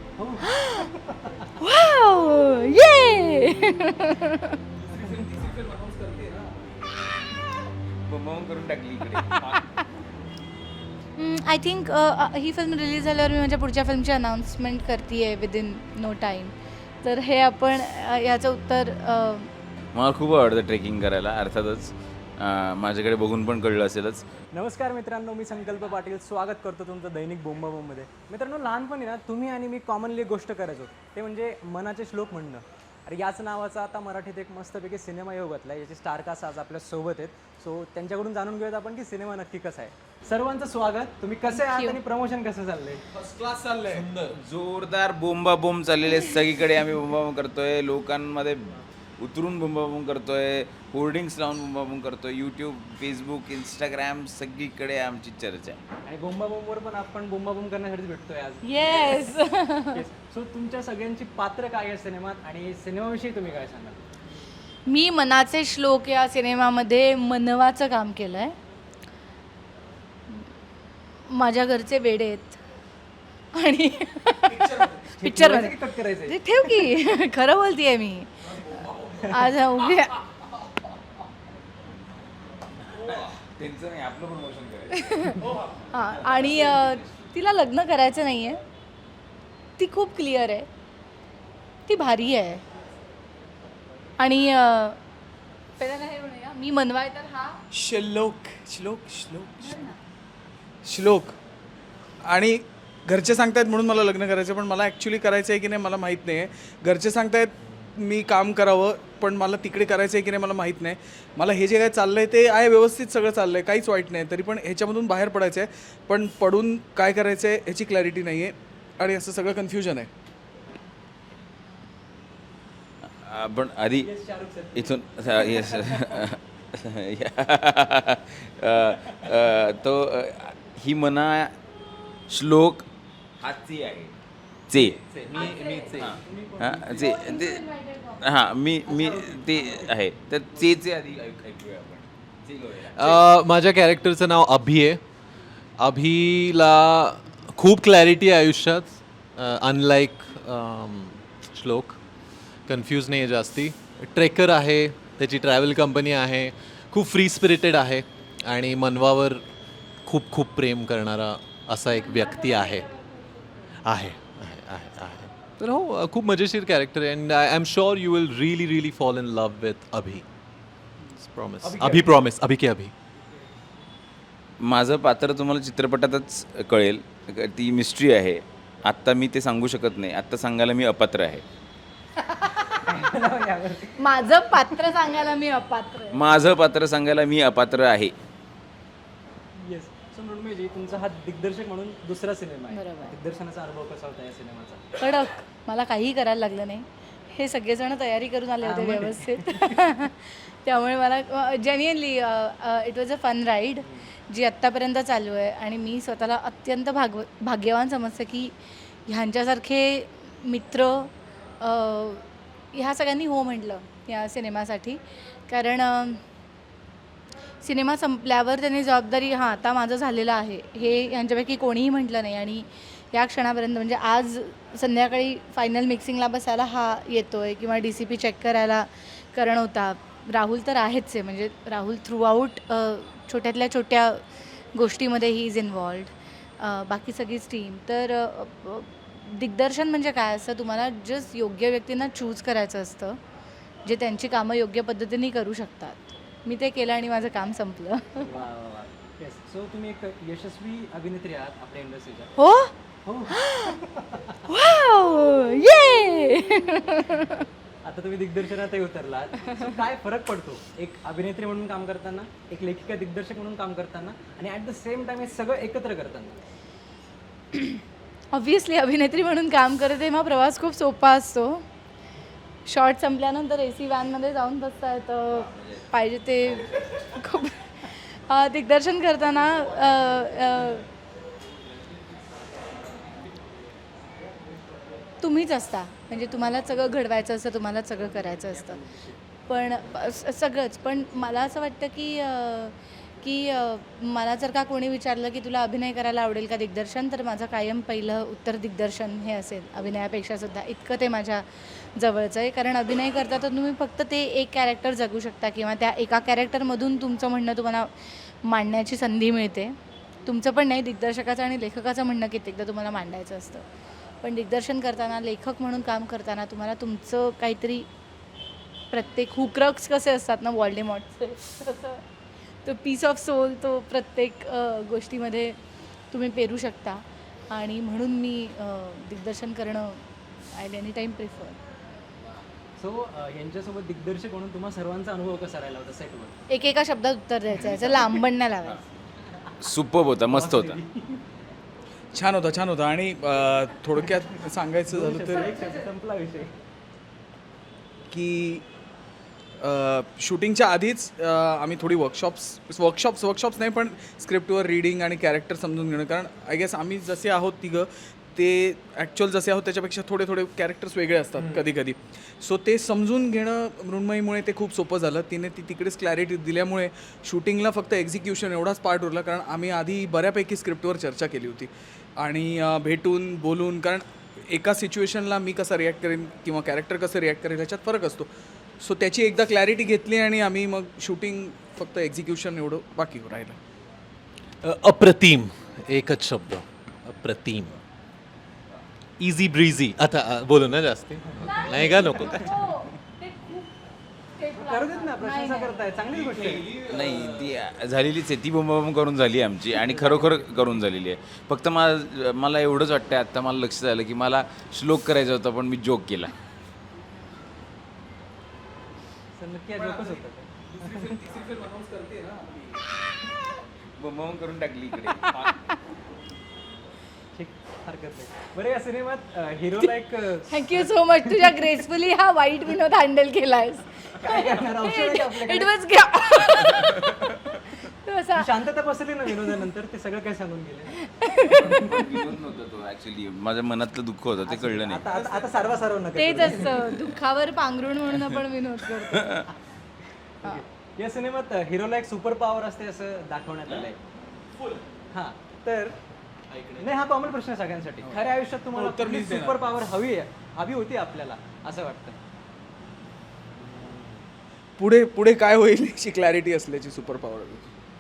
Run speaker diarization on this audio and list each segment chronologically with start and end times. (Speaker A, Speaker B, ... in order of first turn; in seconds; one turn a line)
Speaker A: 0.2-0.6
Speaker B: 0.4-0.9
Speaker B: 1.6-4.6
Speaker C: 4.8-6.8
Speaker D: 8.1-9.6
Speaker B: 11.2-16.5
Speaker B: 17.0-19.5
Speaker D: 19.9-24.3
Speaker A: 24.5-43.0
Speaker B: 41.5-42.0
Speaker C: 43.1-44.1
Speaker D: 44.3-55.8
Speaker A: 56.1-59.4
Speaker B: 58.6-60.0
Speaker A: 59.9-64.0
Speaker B: 64.9-68.5
Speaker B: 71.3-72.6
Speaker B: 73.5-80.2
Speaker C: 74.6-75.0
Speaker A: 75.2-77.0
Speaker D: 82.9-85.5
Speaker B: 85.1-88.6
Speaker B: 89.8-90.7
Speaker B: 91.9-92.6
Speaker B: 94.2-95.0
Speaker B: 95.8-97.6
Speaker C: 97.7-99.8
Speaker B: 99.6-100.0
Speaker C: 100.8-101.4
Speaker C: 102.2-120.1
Speaker D: 123.2-124.1
Speaker A: 124.0-126.2
Speaker D: 124.8-131.6
Speaker D: 132.3-132.9
Speaker D: 133.4-134.2
Speaker D: 134.7-135.0
Speaker A: 135.1-137.4
Speaker E: 135.1-136.2
Speaker D: 135.9-143.2
Speaker B: 137.0-138.2
Speaker A: 138.9-139.9
Speaker A: 140.5-140.8
Speaker E: 142.9-145.0
Speaker E: 145.8-152.0
Speaker E: 152.7-159.4
Speaker E: 160.1-162.9
Speaker E: 163.8-170.2
Speaker E: 171.2-172.9
Speaker A: 171.8-172.0
Speaker D: 174.6-181.4
Speaker A: 182.7-184.6
Speaker B: 184.0-186.2
Speaker D: 186.1-188.1
Speaker A: 189.6-195.0
Speaker B: 192.7-193.2
Speaker B: 195.0-208.6
Speaker A: 198.6-199.8
Speaker A: 203.8-204.1
Speaker B: 209.1-216.2
Speaker B: 217.6-234.2
Speaker B: 234.8-243.2
Speaker B: 243.8-248.4
Speaker A: 248.2-252.3
Speaker B: 252.4-252.7
Speaker A: 253.1-254.4
Speaker B: 253.3-253.8
Speaker B: 254.5-257.4
Speaker A: 257.8-266.4
Speaker B: 268.3-271.6
Speaker B: 272.7-280.9
Speaker D: 275.3-275.9
Speaker D: 276.4-277.0
Speaker B: 285.2-288.8
Speaker A: 288.1-289.2
Speaker B: 289.5-309.7
Speaker B: 310.3-313.6
Speaker B: 314.2-317.9
Speaker B: 318.9-322.0
Speaker B: 322.6-325.6
Speaker B: 326.1-330.0
Speaker B: 330.6-331.6
Speaker A: 332.8-336.4
Speaker B: 336.5-338.8
Speaker D: 339.6-340.8
Speaker A: 340.3-341.2
Speaker C: 342.1-345.6
Speaker A: 344.9-346.5
Speaker C: 348.1-348.6
Speaker C: 349.6-383.6
Speaker E: 384.6-387.8
Speaker E: 389.2-392.7
Speaker B: 391.4-393.7
Speaker B: 394.4-395.8
Speaker A: 394.6-396.8
Speaker E: 396.4-397.2
Speaker D: 396.8-406.4
Speaker A: 399.9-400.5
Speaker A: 409.4-411.1
Speaker C: 409.8-412.8
Speaker D: 414.0-415.5
Speaker A: 417.3-420.6
Speaker B: 420.5-428.5
Speaker A: 424.1-425.8
Speaker A: 428.4-432.0
Speaker B: 431.1-431.9
Speaker D: 431.4-435.1
Speaker A: 434.5-436.9
Speaker C: 435.3-435.6
Speaker B: 436.1-439.5
Speaker A: 440.4-444.0
Speaker A: 445.1-446.0
Speaker A: 446.8-452.2
Speaker C: 448.1-449.6
Speaker C: 454.8-457.7